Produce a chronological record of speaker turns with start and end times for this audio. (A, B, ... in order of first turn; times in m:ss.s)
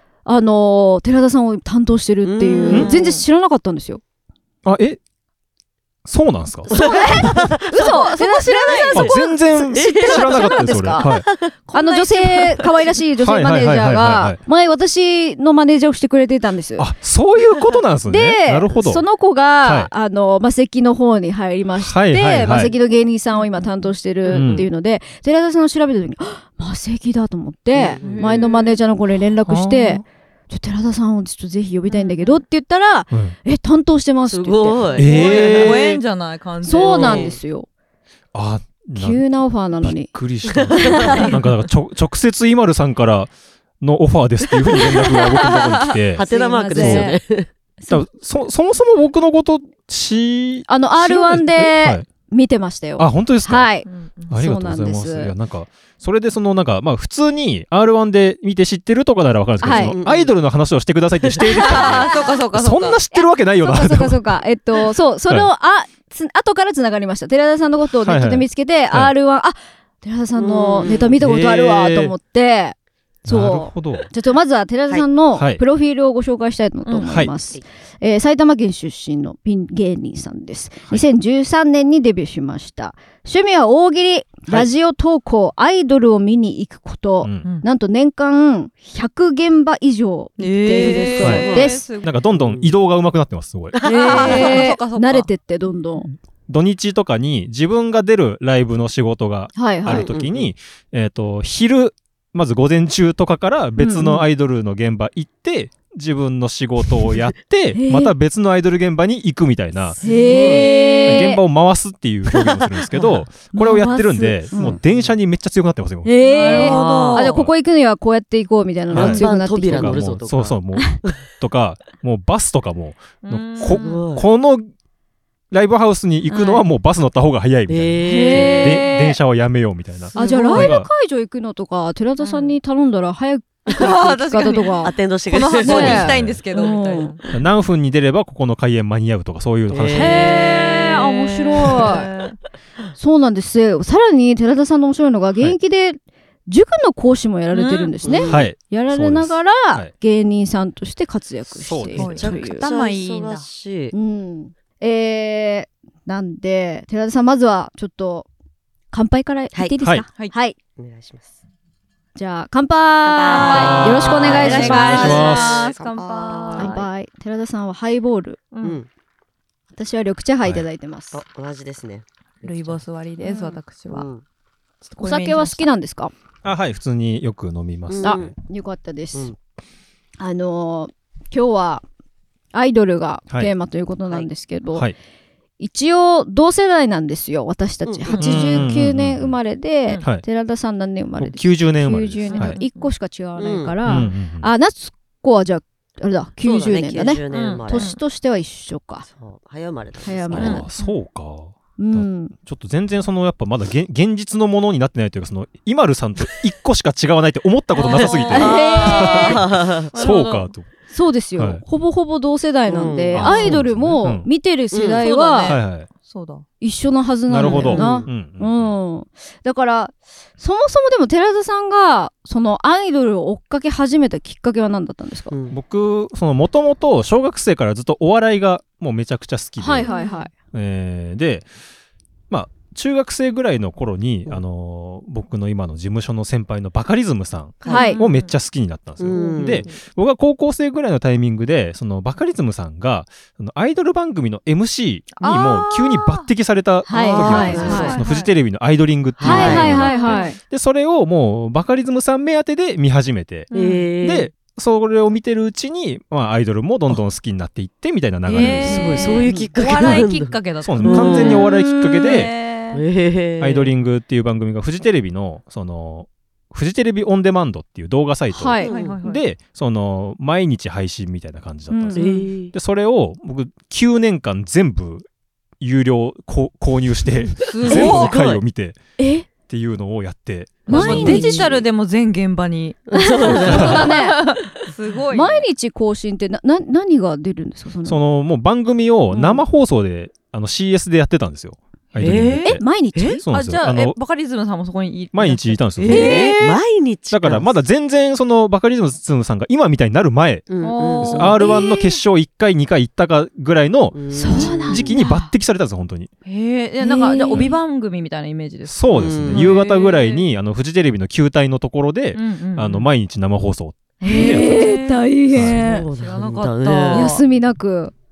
0:00.2-0:04.0 A
0:02.2-0:03.0 B
0:02.7-0:03.2 C
0:04.6-0:05.0 D
0:06.0-0:07.4 D
0:06.7-0:11.1 A
0:06.7-0:08.1 B
0:07.7-0:09.2 C
0:08.9-0:11.2 D
0:09.7-0:11.5 B
0:11.6-0:12.9 C
0:11.7-0:16.9 A
0:13.2-0:14.4 D
0:16.8-0:19.0 D
0:18.1-0:35.1 A
0:19.6-0:19.9 D
0:21.8-0:22.7 D
0:23.3-0:23.9 C
0:24.3-0:24.7 D
0:24.3-0:24.7 B
0:27.7-0:28.5 B
0:28.0-0:28.8 C
0:29.4-0:30.0 D
0:31.9-0:32.4 C
0:34.3-0:36.0 B
0:34.8-0:37.3 C
0:35.0-0:35.8 D
0:36.6-0:37.7 A
0:36.8-0:37.4 B
0:38.3-0:39.2 D
0:39.0-0:40.1 A
0:39.8-0:47.1 D
0:40.5-0:41.3 B
0:40.8-0:41.2 A
0:44.7-0:45.5 A
0:46.1-0:47.5 B
0:46.2-0:47.2 A
0:47.9-0:52.0 D
0:50.7-0:55.3 A
0:53.0-0:53.7 D
0:53.8-0:54.4 C
0:54.3-1:04.4 D
0:59.6-1:00.0 A
0:59.7-1:00.3 B
1:01.6-1:03.0 C
1:03.1-1:31.8 A
1:08.0-1:09.1 D
1:10.4-1:11.2 B
1:11.2-1:12.1 D
1:13.2-1:14.1 D
1:15.4-1:15.6 D
1:16.8-1:17.1 C
1:27.2-1:27.5 D
1:30.4-1:32.1 C
1:30.7-1:32.7 B
1:31.2-1:34.6 D
1:33.7-1:34.6 B
1:33.8-1:36.1 A
1:33.8-1:35.3 C
1:36.5-1:50.0 D
1:39.5-1:40.1 A
1:39.8-1:40.5 B
1:43.8-1:44.3 A
1:47.7-1:48.1 A
1:50.0-1:50.7 B
1:50.0-1:51.4 A
1:50.0-1:51.2 C
1:51.0-1:56.7 D
1:52.3-1:53.2 B
1:53.5-1:54.8 A
1:54.6-1:55.2 B
1:56.0-2:00.0 A
1:56.2-1:57.3 C
1:56.4-1:57.3 B
1:57.3-1:57.5 D
1:58.9-2:01.2 B
1:58.9-2:04.7 D
2:03.2-2:04.0 C
2:03.6-2:04.3 B
2:05.5-2:10.9 D
2:06.3-2:06.6 C
2:07.7-2:08.8 B
2:08.0-2:09.2 A
2:08.2-2:09.0 C
2:10.1-2:10.8 C
2:10.2-2:14.9 A
2:12.2-2:12.6 C
2:13.7-2:17.2 C
2:14.8-2:16.2 B
2:15.6-2:17.1 A
2:15.7-2:16.4 D
2:17.3-2:20.2 D
2:19.7-2:20.2 B
2:19.9-2:22.1 A
2:20.1-2:22.4 C
2:23.0-2:32.6 A
2:27.5-2:27.9 C
2:28.0-2:28.5 B
2:28.3-2:29.9 D
2:31.6-2:32.3 D
2:32.0-2:33.5 C
2:32.2-2:33.9 B
2:33.9-2:38.3 A
2:38.9-2:40.6 A
2:39.8-2:40.1 D
2:40.8-2:41.3 B
2:42.2-2:45.2 A
2:43.0-2:46.8 B
2:43.2-2:46.9 C
2:43.5-2:45.6 D
2:46.6-2:48.4 A
2:48.5-2:48.8 C
2:48.6-2:48.9 B
2:49.7-2:51.2 A
2:51.1-2:52.8 B
2:52.4-2:54.1 C
2:53.2-2:53.6 A
2:53.9-2:54.2 B
2:54.8-2:55.7 C
2:55.0-2:56.1 A
2:56.4-2:58.3 D
2:57.9-2:58.3 B
2:58.0-2:59.3 A
3:00.2-3:01.8 A
3:02.5-3:04.9 A
3:05.6-3:19.0 A
3:07.8-3:08.2 B
3:08.1-3:08.7 C
3:08.2-3:09.4 D
3:11.2-3:12.6 D
3:12.2-3:12.9 C
3:13.4-3:14.1 B
3:13.8-3:14.5 D
3:16.4-3:17.9 B
3:17.3-3:18.0 C
3:19.0-3:20.6 B
3:20.0-3:20.7 A
3:20.3-3:30.7 D
3:20.4-3:21.0 C
3:21.8-3:22.3 A
3:27.7-3:30.5 C
3:27.8-3:29.9 B
3:28.3-3:29.4 A
3:30.9-3:35.6 A
3:31.4-3:31.6 D
3:32.7-3:33.6 B
3:33.1-3:34.3 D
3:34.7-3:35.0 B
3:35.0-3:36.4 C
3:35.4-3:35.9 D
3:36.6-3:45.3 A
3:37.3-3:38.8 D
3:37.5-3:38.1 B
3:45.3-3:45.6 B
3:45.5-3:49.9 D
3:49.6-3:50.3 A
3:49.8-3:50.3 C
3:50.5-3:51.4 D
3:52.3-4:13.5 D
3:57.6-3:57.9 B
3:57.6-3:58.3 C
3:57.7-3:58.0 A
3:59.0-3:59.7 B
3:59.1-3:59.8 C
4:05.2-4:06.3 C
4:06.9-4:08.0 A
4:07.0-4:08.0 B
4:07.1-4:08.3 C
4:09.2-4:09.7 B
4:09.2-4:10.4 A
4:09.3-4:10.3 C
4:13.5-4:13.9 C
4:13.5-4:14.3 B
4:14.0-4:20.0 D
4:18.2-4:22.8 C
4:18.4-4:21.5 B
4:20.6-4:22.3 D
4:22.7-4:23.7 B
4:23.4-4:35.0 D
4:28.3-4:28.7 A
4:28.6-4:29.2 C
4:28.6-4:29.0 B
4:31.7-4:32.2 A
4:31.9-4:32.5 B
4:35.6-4:38.8 D
4:37.3-4:38.4 B
4:37.4-4:38.2 C
4:39.0-4:39.2 A
4:39.5-4:41.2 D
4:40.7-4:41.7 B
4:40.7-4:41.5 A
4:40.7-4:45.4 C
4:42.9-4:43.9 B
4:42.9-4:44.2 A
4:43.4-4:43.9 D
4:45.1-4:48.0 A
4:47.8-4:52.6 D
4:49.1-4:49.4 A
4:52.0-4:52.5 C
4:52.0-4:53.2 B
4:52.4-4:53.2 A
4:53.2-4:53.9 D
4:53.3-4:56.5 C
4:55.1-4:56.3 D
4:55.8-4:57.5 B
4:55.9-4:56.5 A
4:57.1-5:00.4 D
5:00.5-5:01.5 B
5:00.6-5:01.4 C
5:01.0-5:06.1 D
5:01.4-5:02.0 A
5:03.9-5:04.9 B
5:04.1-5:05.3 A
5:04.3-5:04.9 C
5:06.2-5:10.3 C
5:06.8-5:07.5 A
5:08.7-5:14.6 D
5:08.9-5:09.5 B
5:12.1-5:12.9 C
5:14.0-5:15.9 A
5:14.0-5:17.2 C
5:15.3-5:15.6 D
5:15.5-5:17.1 B
5:16.9-5:17.9 A